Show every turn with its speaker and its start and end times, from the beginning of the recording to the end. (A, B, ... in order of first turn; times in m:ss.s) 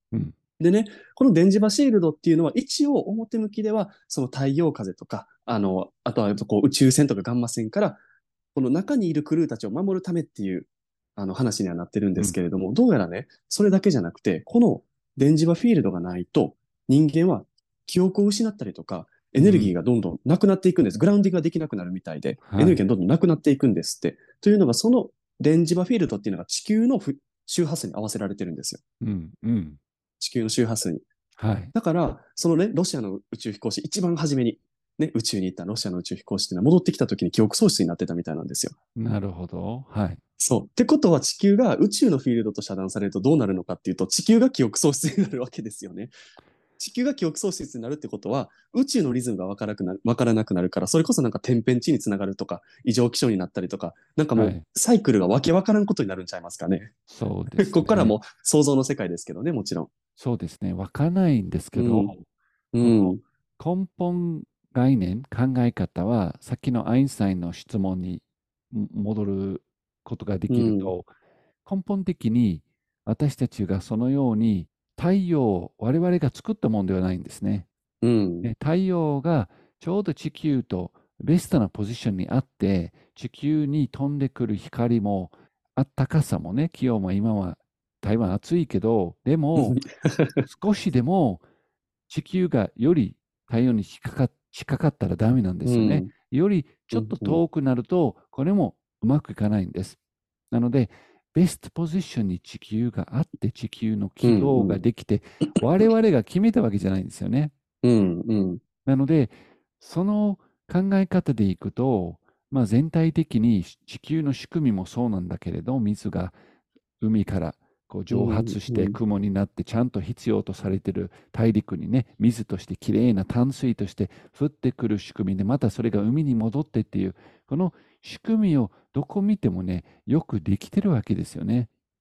0:00.6-0:08.0 A
0:08.5-0:28.8 A
0:19.4-0:19.7 B
0:22.4-0:22.8 B
0:29.0-0:29.8 B
0:30.2-0:31.0 A
0:31.4-0:31.7 B
0:31.7-0:38.7 A
0:38.9-0:40.2 B
0:40.4-0:46.1 A
0:46.8-0:56.9 A
0:54.4-0:54.6 B
0:57.1-0:58.1 B
0:57.5-0:59.9 A
1:00.2-1:02.2 B
1:01.7-1:02.1 A
1:02.7-1:03.2 A
1:02.8-1:11.1 B
1:10.5-1:10.9 A
1:11.6-1:17.7 B
1:18.0-1:18.5 A
1:18.4-1:29.8 B
1:29.6-1:30.5 A
1:30.4-1:31.4 B
1:32.1-1:40.0 B
1:35.6-1:36.1 A
1:36.9-1:37.4 A
1:40.5-1:47.5 B
1:44.2-1:44.8 A
1:47.8-1:48.6 A
1:48.8-1:56.4 B
1:57.0-2:11.7 B
1:58.1-1:59.0 A